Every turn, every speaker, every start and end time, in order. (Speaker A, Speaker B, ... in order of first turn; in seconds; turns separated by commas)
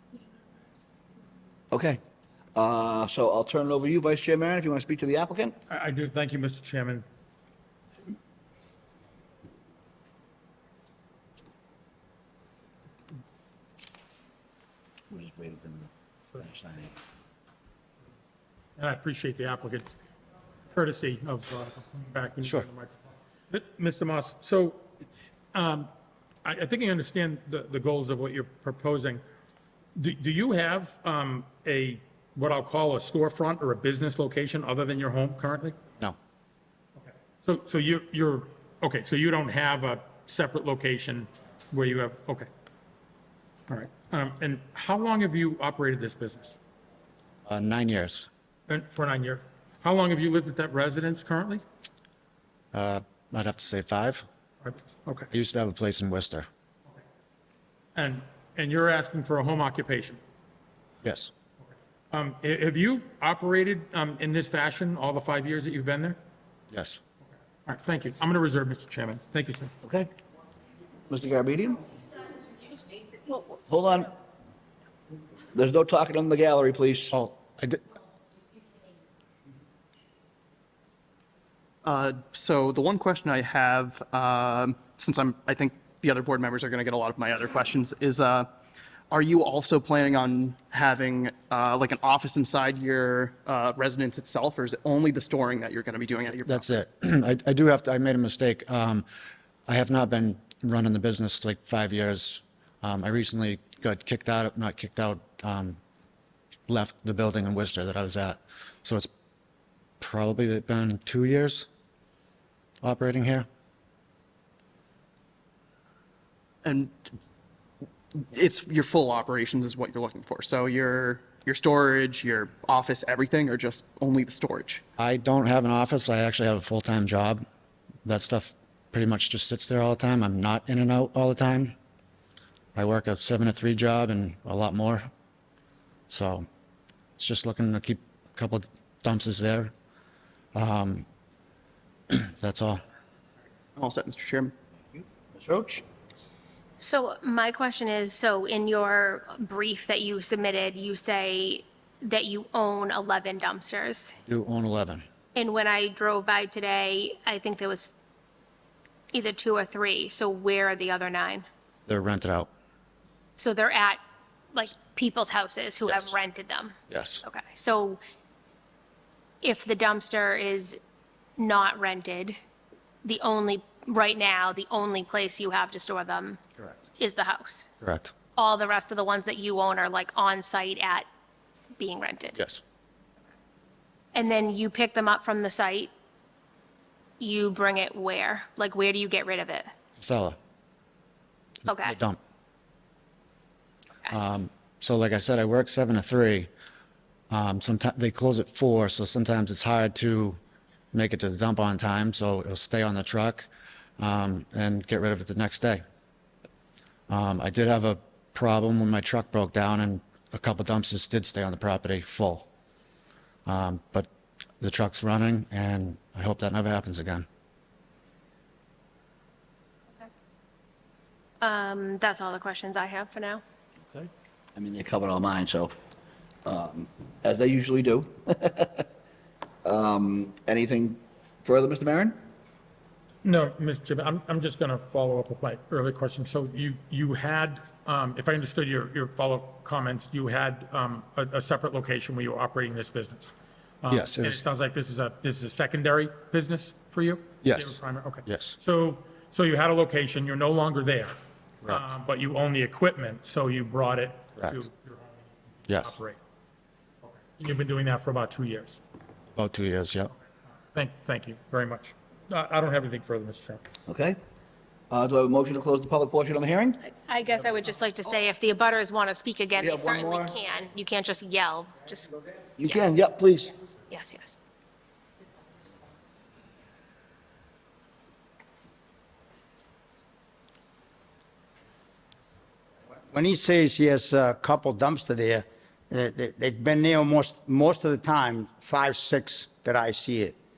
Speaker A: 1.7-2.0, Speaker A: 2.5-5.5, Speaker B: 5.7-7.0, Speaker A: 15.1-17.0, Speaker B: 18.8-20.0, Speaker B: 20.7-24.8, Speaker B: 25.5-25.9, Speaker B: 26.4-29.2, Speaker B: 30.0-35.8, Speaker B: 37.4-42.5, Speaker B: 43.7-46.6, Speaker C: 47.5-48.3, Speaker B: 48.7-51.6, Speaker C: 52.7-54.2, Speaker B: 54.6-55.3, Speaker C: 55.3-56.5, Speaker B: 58.0-60.2, Speaker C: 61.0-61.3, Speaker B: 62.1-66.2, Speaker C: 66.7-67.0, Speaker B: 67.7-69.7, Speaker A: 69.8-70.1, Speaker A: 71.1-71.9, Speaker A: 73.5-74.1, Speaker A: 75.5-77.2, Speaker C: 77.1-77.8, Speaker D: 81.8-88.5, Speaker D: 89.1-96.7, Speaker C: 96.5-99.1, Speaker C: 99.7-105.8, Speaker C: 106.7-109.1, Speaker C: 110.0-111.7, Speaker C: 112.8-113.5, Speaker D: 116.6-116.9, Speaker D: 118.2-124.8, Speaker C: 125.0-127.4, Speaker C: 128.1-131.8, Speaker C: 132.8-135.1, Speaker C: 136.1-136.5, Speaker C: 137.2-139.7, Speaker C: 140.6-141.1, Speaker C: 142.1-142.8, Speaker D: 143.8-144.5, Speaker A: 144.9-145.8, Speaker E: 146.8-154.2, Speaker C: 154.3-155.1, Speaker E: 155.3-158.0, Speaker E: 159.1-161.5, Speaker C: 161.9-162.5, Speaker E: 163.4-164.0, Speaker E: 164.5-168.0, Speaker C: 165.9-166.1, Speaker C: 166.9-167.2, Speaker E: 169.4-170.8, Speaker E: 171.4-172.4, Speaker E: 173.0-176.4, Speaker E: 177.0-177.7, Speaker C: 177.8-178.1, Speaker E: 178.3-181.1, Speaker E: 181.8-182.4, Speaker C: 182.4-182.6, Speaker E: 184.1-185.9, Speaker E: 187.2-189.7, Speaker C: 190.0-190.4, Speaker E: 191.7-192.0, Speaker C: 191.8-192.2, Speaker C: 194.1-196.5, Speaker C: 197.3-200.4, Speaker C: 200.9-205.8, Speaker C: 207.1-212.5, Speaker C: 213.5-214.1, Speaker C: 214.6-217.3, Speaker E: 221.4-223.4, Speaker A: 223.8-225.7, Speaker A: 226.4-228.9, Speaker A: 229.6-232.2, Speaker B: 233.2-251.2, Speaker C: 243.9-244.4, Speaker C: 247.4-248.6, Speaker B: 251.7-256.2, Speaker C: 255.7-256.0, Speaker B: 257.0-258.8, Speaker C: 259.4-260.1, Speaker B: 260.7-263.6, Speaker A: 263.9-264.2, Speaker A: 264.9-266.8, Speaker E: 266.9-273.0, Speaker A: 269.6-270.3, Speaker A: 272.6-273.6, Speaker E: 273.6-274.4, Speaker F: 283.1-290.4